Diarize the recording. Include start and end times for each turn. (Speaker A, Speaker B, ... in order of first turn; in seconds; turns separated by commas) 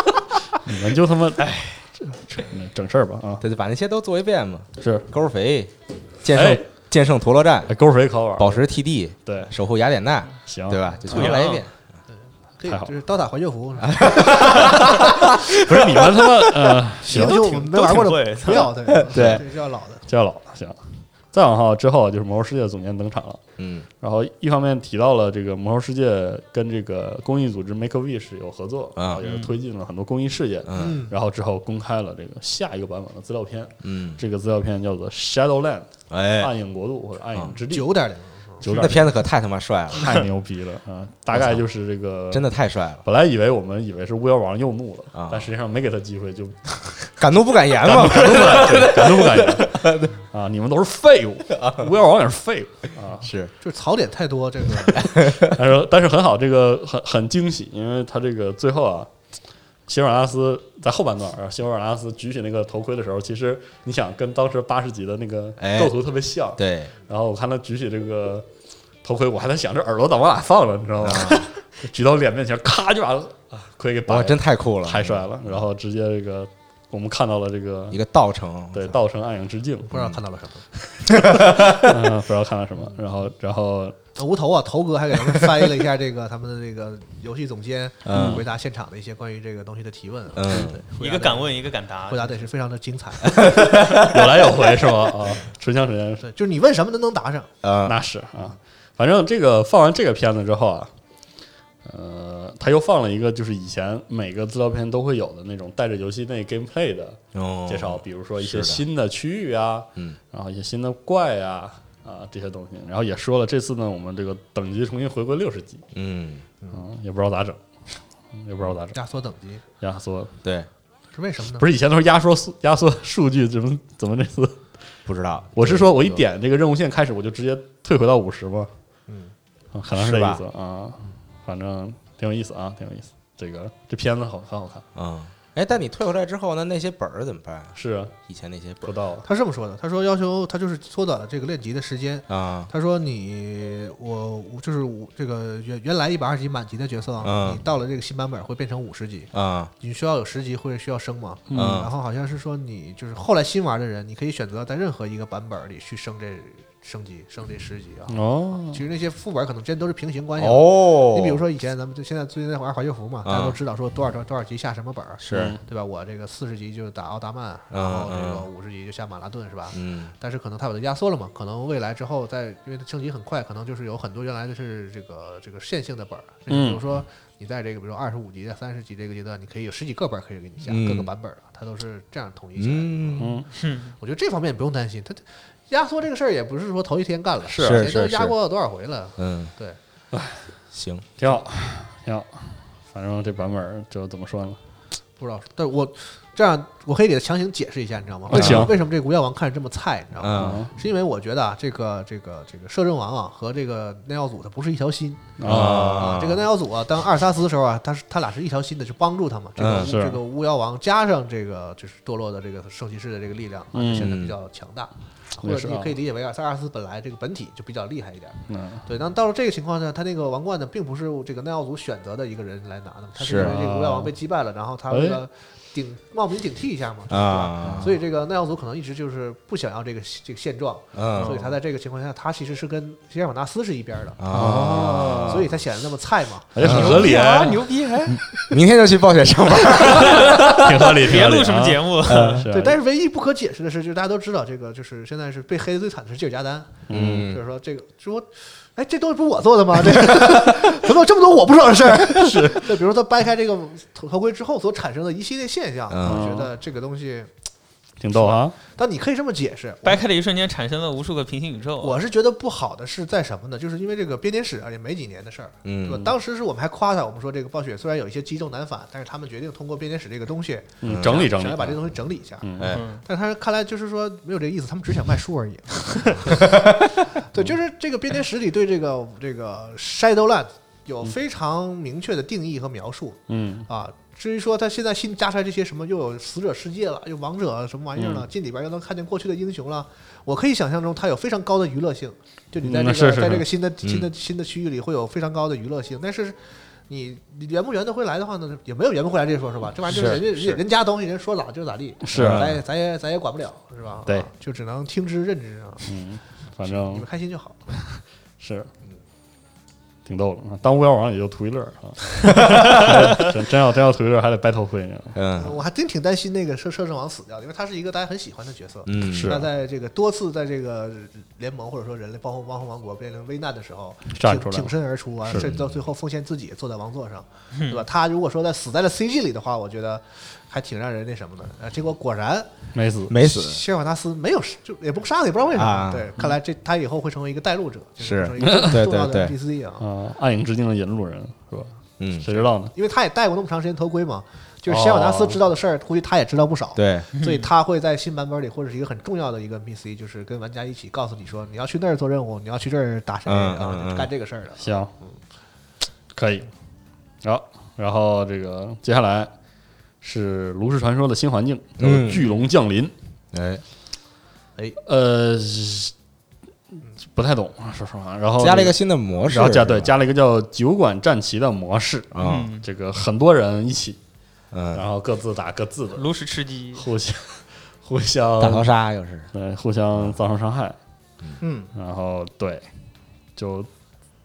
Speaker A: 0.6-3.5, Speaker B: 1.4-1.9, Speaker C: 3.4-5.7, Speaker A: 4.8-5.1, Speaker C: 6.2-7.7, Speaker A: 6.3-6.6, Speaker A: 7.7-8.7, Speaker C: 8.4-11.7, Speaker A: 9.2-9.5, Speaker A: 10.5-11.4, Speaker B: 11.1-11.6, Speaker D: 12.5-14.7, Speaker C: 13.8-16.7, Speaker A: 14.4-17.5, Speaker D: 17.0-20.1, Speaker B: 17.1-18.7, Speaker C: 18.9-19.4, Speaker A: 19.1-19.4, Speaker A: 20.1-23.4, Speaker C: 23.6-23.9, Speaker A: 24.0-38.0, Speaker C: 29.0-29.2, Speaker B: 29.2-29.5, Speaker C: 30.7-31.0, Speaker D: 30.8-31.1, Speaker C: 33.8-34.2, Speaker C: 36.1-36.5, Speaker D: 37.7-38.6, Speaker A: 38.6-39.3, Speaker C: 38.6-40.2, Speaker A: 39.9-42.5, Speaker C: 41.3-41.6, Speaker C: 42.3-43.0, Speaker A: 43.0-47.1, Speaker C: 45.1-45.5, Speaker C: 47.2-50.1, Speaker A: 47.8-53.3, Speaker C: 53.2-53.5, Speaker D: 53.6-55.1, Speaker A: 55.0-59.1, Speaker C: 55.0-55.5, Speaker A: 59.9-68.5, Speaker C: 65.6-66.0, Speaker C: 66.6-66.9, Speaker A: 69.0-78.0, Speaker C: 71.0-71.5, Speaker C: 74.1-75.2, Speaker C: 77.9-78.9, Speaker A: 78.7-80.0, Speaker D: 79.9-80.6, Speaker A: 80.9-84.0, Speaker C: 81.1-82.0, Speaker D: 84.2-93.8, Speaker C: 88.0-88.5, Speaker A: 88.1-88.5, Speaker C: 90.3-90.8, Speaker A: 90.5-90.8, Speaker B: 91.0-92.4, Speaker C: 93.3-94.2, Speaker A: 93.4-96.3, Speaker D: 96.2-97.5, Speaker C: 97.6-98.0, Speaker A: 97.8-100.9, Speaker A: 101.8-115.8, Speaker C: 107.3-108.8, Speaker C: 115.9-116.5, Speaker A: 116.7-117.6, Speaker A: 118.3-119.0, Speaker D: 118.9-119.6, Speaker A: 119.8-120.4, Speaker D: 121.1-121.7, Speaker A: 121.5-124.7, Speaker C: 125.0-126.2, Speaker A: 125.5-128.7, Speaker D: 129.1-129.3, Speaker A: 129.7-134.9, Speaker C: 129.9-130.4, Speaker C: 134.9-137.8, Speaker A: 137.8-138.2, Speaker C: 138.3-138.9, Speaker A: 138.8-139.2, Speaker D: 139.2-189.8, Speaker C: 142.3-142.7, Speaker C: 147.2-147.6, Speaker C: 149.3-149.7, Speaker A: 151.5-151.9, Speaker C: 151.5-151.9, Speaker A: 158.1-158.8, Speaker C: 160.4-161.4, Speaker C: 163.2-163.6, Speaker C: 165.2-165.6, Speaker A: 165.3-165.6, Speaker C: 167.7-168.5, Speaker C: 169.7-170.1, Speaker A: 176.5-176.8, Speaker C: 180.7-181.1, Speaker C: 182.6-183.4, Speaker A: 183.2-183.5, Speaker B: 183.6-183.9, Speaker A: 187.5-187.9, Speaker C: 187.6-188.3, Speaker C: 189.2-189.5, Speaker A: 190.1-190.4, Speaker C: 190.7-191.0, Speaker A: 191.2-194.6, Speaker D: 195.2-237.1, Speaker A: 198.3-198.7, Speaker C: 198.3-198.7, Speaker C: 200.2-200.6, Speaker A: 200.3-200.7, Speaker A: 205.4-206.3, Speaker C: 205.4-206.4, Speaker C: 209.6-209.9, Speaker A: 209.6-210.2, Speaker A: 213.7-214.2, Speaker C: 214.0-214.3, Speaker A: 215.4-215.9, Speaker A: 218.5-218.9, Speaker C: 223.2-223.6, Speaker A: 223.3-224.1, Speaker A: 224.9-225.2, Speaker C: 227.1-227.9, Speaker A: 227.6-227.9, Speaker C: 230.9-231.3, Speaker C: 234.2-235.5, Speaker A: 234.3-235.5, Speaker A: 236.5-237.7, Speaker B: 236.6-238.3, Speaker C: 236.6-237.1, Speaker C: 238.5-240.8, Speaker A: 239.9-242.8, Speaker B: 240.0-242.5, Speaker D: 242.4-257.3, Speaker A: 246.9-247.3, Speaker C: 246.9-247.4, Speaker A: 252.1-252.7, Speaker C: 255.9-256.2, Speaker A: 256.0-256.5, Speaker A: 258.0-258.5, Speaker D: 258.1-260.0, Speaker B: 259.8-262.0, Speaker D: 261.8-306.0, Speaker C: 265.6-266.1, Speaker A: 270.8-271.8, Speaker C: 270.9-271.3, Speaker A: 272.4-272.8, Speaker C: 272.6-272.8, Speaker B: 272.7-273.0, Speaker A: 283.3-283.7, Speaker A: 288.0-288.2, Speaker A: 292.6-293.5, Speaker C: 293.8-294.1, Speaker A: 299.9-300.6, Speaker A: 302.0-302.6, Speaker C: 302.1-302.5, Speaker A: 305.9-307.1, Speaker D: 306.6-307.8, Speaker A: 307.8-308.7, Speaker A: 310.0-315.2, Speaker C: 312.5-312.9, Speaker C: 315.1-315.6, Speaker D: 315.4-332.5, Speaker C: 318.9-319.4, Speaker A: 319.0-319.5, Speaker A: 324.1-325.5, Speaker C: 325.3-325.6, Speaker B: 327.5-327.8, Speaker A: 332.7-333.2, Speaker C: 333.1-333.6, Speaker D: 333.2-339.9, Speaker C: 335.5-336.2, Speaker C: 338.0-339.4, Speaker A: 338.5-338.8, Speaker A: 339.8-342.7, Speaker C: 342.0-342.3, Speaker D: 342.3-355.1, Speaker A: 344.7-345.4, Speaker C: 346.8-347.1, Speaker B: 347.2-347.5, Speaker C: 353.2-354.1, Speaker A: 354.6-354.9, Speaker A: 356.1-356.5, Speaker A: 357.2-359.3, Speaker A: 360.0-362.9, Speaker C: 361.8-362.2, Speaker C: 363.3-363.6, Speaker A: 364.8-365.9, Speaker A: 367.0-374.0, Speaker C: 368.4-369.9, Speaker C: 372.1-372.5, Speaker B: 372.2-372.6, Speaker C: 374.5-374.8, Speaker A: 374.7-376.1, Speaker B: 376.0-376.9, Speaker A: 376.8-378.7, Speaker C: 378.4-379.3, Speaker A: 379.3-380.8, Speaker D: 381.4-381.7, Speaker A: 381.7-382.7, Speaker A: 383.4-383.7